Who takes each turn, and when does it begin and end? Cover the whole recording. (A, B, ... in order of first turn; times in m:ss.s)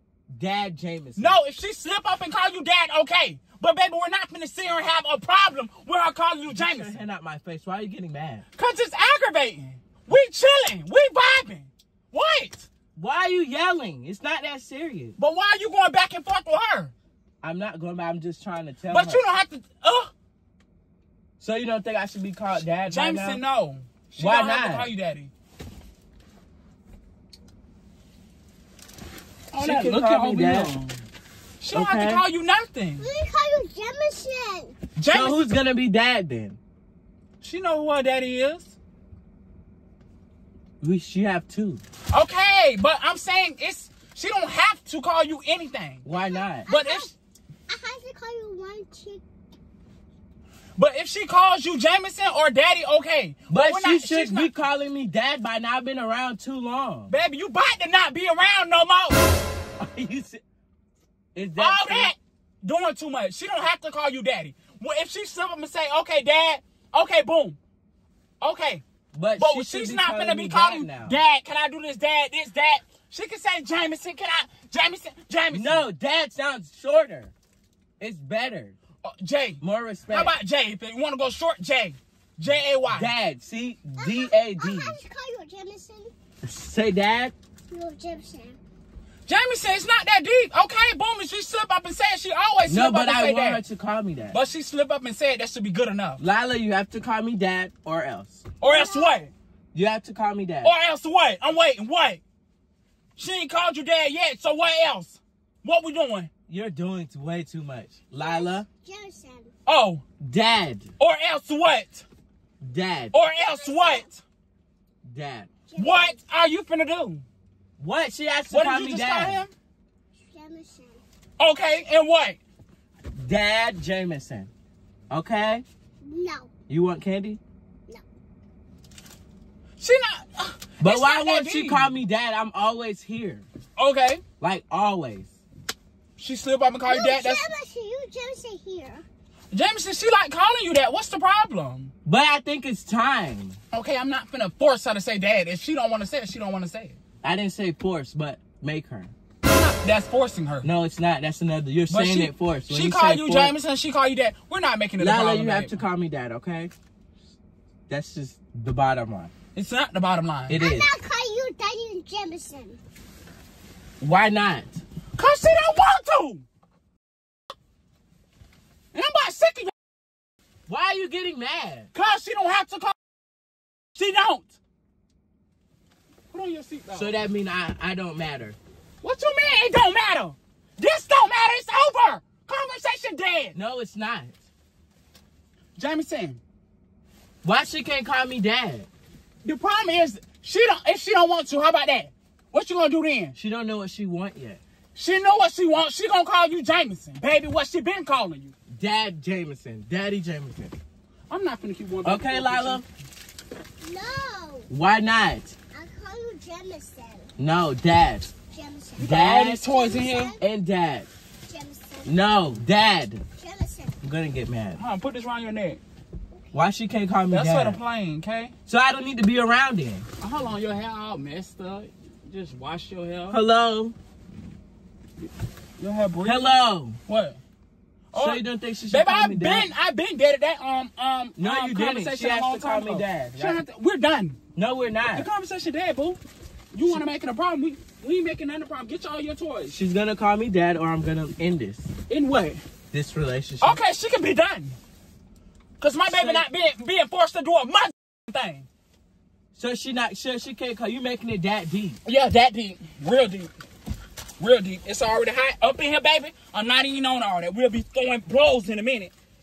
0:00.3-0:01.4 A
0:01.2-0:07.0 B
0:06.5-0:08.4 A
0:08.6-0:12.7 B
0:13.0-0:15.2 A
0:15.2-0:16.9 B
0:17.4-0:19.2 A
0:18.9-0:20.1 B
0:21.4-0:23.4 A
0:22.9-0:25.3 B
0:24.2-0:24.9 A
0:29.5-0:30.8 A
0:29.5-0:31.0 B
0:31.6-0:33.1 B
0:31.7-0:32.2 A
0:33.0-0:34.8 C
0:35.0-0:35.4 B
0:35.1-0:36.6 A
0:37.4-0:38.8 B
0:40.8-0:41.8 A
0:42.1-0:46.0 B
0:46.0-0:46.7 A
0:46.1-0:47.1 C
0:46.7-0:47.1 B
0:47.7-0:49.2 C
0:50.8-0:54.5 B
0:53.5-0:57.1 A
0:57.1-0:59.2 B
0:59.8-1:00.4 A
1:01.4-1:02.1 A
1:01.6-1:07.6 B
1:08.4-1:08.8 B
1:09.1-1:11.2 A
1:09.4-1:15.8 B
1:15.5-1:17.3 A
1:18.0-1:18.8 A
1:19.0-1:23.1 B
1:19.6-1:20.3 A
1:22.9-1:25.0 A
1:24.0-1:26.1 C
1:26.4-1:27.3 A
1:27.7-1:28.6 C
1:29.3-1:33.6 B
1:32.7-1:34.4 A
1:34.3-1:36.2 B
1:36.2-1:38.4 A
1:38.6-1:39.3 B
1:38.7-1:39.2 C
1:39.7-1:40.7 A
1:40.6-1:42.2 B
1:43.2-1:46.3 B
1:46.5-1:48.7 A
1:48.2-1:49.5 C
1:49.7-1:50.0 B
1:50.2-1:50.9 A
1:51.0-1:52.0 B
1:52.6-1:53.1 A
1:53.1-1:54.2 B
1:53.5-1:54.1 C
1:55.0-1:55.5 A
1:55.7-1:56.2 C
1:55.8-1:57.2 B
1:57.8-1:59.4 A
1:58.5-1:59.5 B
2:00.2-2:01.0 C
2:01.4-2:02.4 B
2:03.1-2:04.5 A
2:05.1-2:05.6 A
2:06.0-2:06.5 C
2:06.7-2:07.4 A
2:09.8-2:11.9 B
2:10.8-2:13.5 A
2:13.8-2:14.2 B
2:14.4-2:15.3 A
2:16.2-2:17.5 B
2:16.9-2:19.1 C
2:19.5-2:21.9 B
2:22.0-2:23.6 A
2:23.7-2:27.0 B
2:27.2-2:29.1 A
2:29.4-2:30.7 B
2:30.6-2:33.5 A
2:31.9-2:35.8 B
2:35.0-2:36.7 A
2:37.9-2:39.3 A
2:39.6-2:40.6 B
2:40.5-2:40.9 A
2:40.6-2:42.8 C
2:44.0-2:44.8 A
2:45.2-2:46.4 B
2:48.9-2:49.7 B
2:50.7-2:51.9 A
2:51.9-2:53.0 B
2:53.9-2:54.6 B
2:56.3-2:57.1 B
2:56.9-2:58.6 A
2:59.0-3:03.6 B
3:03.5-3:04.4 A
3:05.8-3:06.4 B
3:07.4-3:08.9 A
3:09.4-3:13.4 B
3:13.4-3:14.6 A
3:15.0-3:18.5 B
3:18.7-3:20.8 A
3:21.3-3:22.8 B
3:22.0-3:22.8 A
3:23.8-3:24.7 C
3:24.7-3:25.6 A
3:25.7-3:27.3 C
3:27.4-3:28.3 A
3:28.5-3:30.4 C
3:29.0-3:29.6 A
3:29.0-3:30.4 B
3:30.4-3:31.1 A
3:31.5-3:32.1 C
3:32.0-3:33.2 A
3:33.4-3:34.0 C
3:34.0-3:34.8 A
3:34.8-3:35.8 B
3:36.5-3:37.8 A
3:37.3-3:38.5 B
3:38.7-3:40.0 A
3:40.2-3:43.4 B
3:43.3-3:44.0 A
3:45.8-3:46.5 B
3:46.2-3:47.0 A
3:47.1-3:47.4 B
3:48.1-3:54.4 B
3:48.2-3:49.7 A
3:51.4-3:53.6 A
3:54.6-3:55.3 A
3:55.1-3:56.2 B
3:56.7-3:59.8 B
3:59.7-4:01.9 A
4:02.1-4:02.6 B
4:02.9-4:03.8 A
4:03.6-4:04.8 B
4:05.8-4:08.7 B
4:06.1-4:06.5 A
4:09.5-4:12.0 A
4:12.0-4:13.5 B
4:14.4-4:19.1 B